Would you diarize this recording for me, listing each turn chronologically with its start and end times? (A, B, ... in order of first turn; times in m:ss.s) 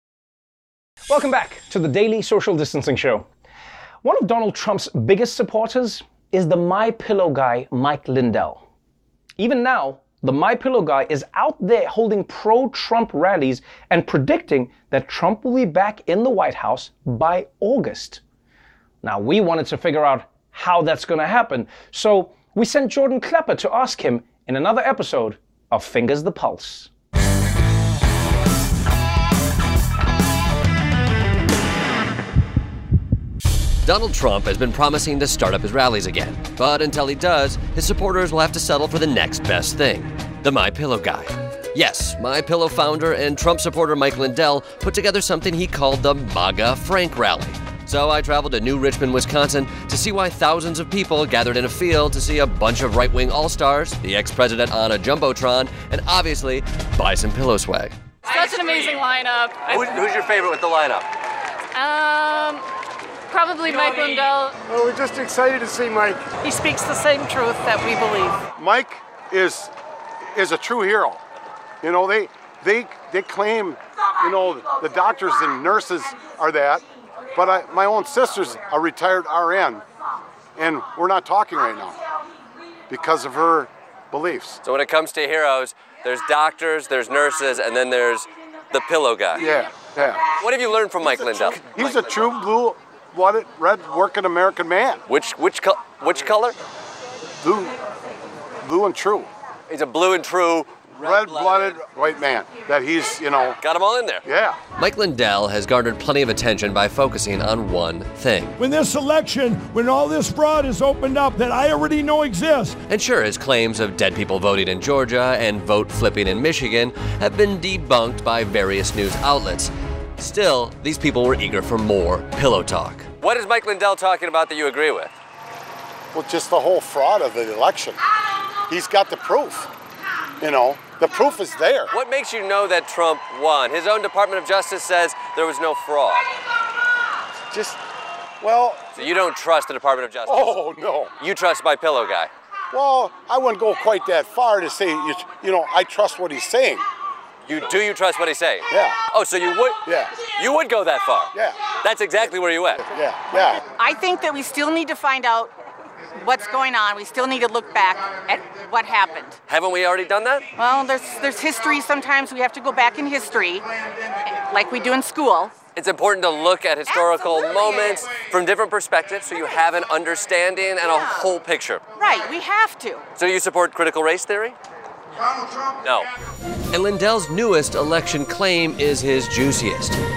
0:01.1-0:03.3 A
0:04.0-0:08.6 A
0:09.4-0:18.2 A
0:19.0-0:26.9 A
0:33.8-0:57.9 B
0:58.2-0:59.9 C
0:59.7-1:01.1 B
1:01.8-1:02.6 C
1:03.3-1:04.5 C
1:04.7-1:06.2 D
1:06.4-1:08.4 C
1:08.6-1:09.7 D
1:10.3-1:11.2 D
1:11.8-1:19.8 D
1:20.6-1:22.0 D
1:22.9-1:24.6 D
1:24.6-1:29.5 B
1:29.4-1:30.3 D
1:30.3-1:32.3 B
1:31.2-1:35.0 D
1:35.1-1:36.6 B
1:37.4-1:37.8 D
1:38.6-1:39.3 D
1:39.7-1:41.8 B
1:41.0-1:43.6 D
1:43.6-1:48.6 B
1:44.2-1:44.6 D
1:48.6-1:52.8 E
1:52.9-2:05.1 B
2:06.1-2:08.0 D
2:08.7-2:09.7 D
2:10.4-2:11.9 D
2:11.9-2:16.3 B
2:17.5-2:17.8 D
2:18.4-2:18.9 D
2:19.0-2:20.6 B
2:20.3-2:21.1 D
2:21.2-2:22.3 B
2:22.7-2:26.8 D
2:27.5-2:32.8 B
2:28.7-2:29.0 D
2:29.9-2:30.2 D
2:32.8-2:33.6 D
2:33.8-2:35.5 F
2:36.2-2:39.4 F
2:39.5-2:40.4 B
2:40.6-2:43.7 F
2:44.2-2:45.6 F
2:45.8-2:51.8 B
2:46.9-2:47.9 F
2:50.9-2:51.2 F
2:52.0-2:53.0 F
2:53.2-2:54.6 B
2:55.8-2:56.1 B
2:56.7-3:00.0 B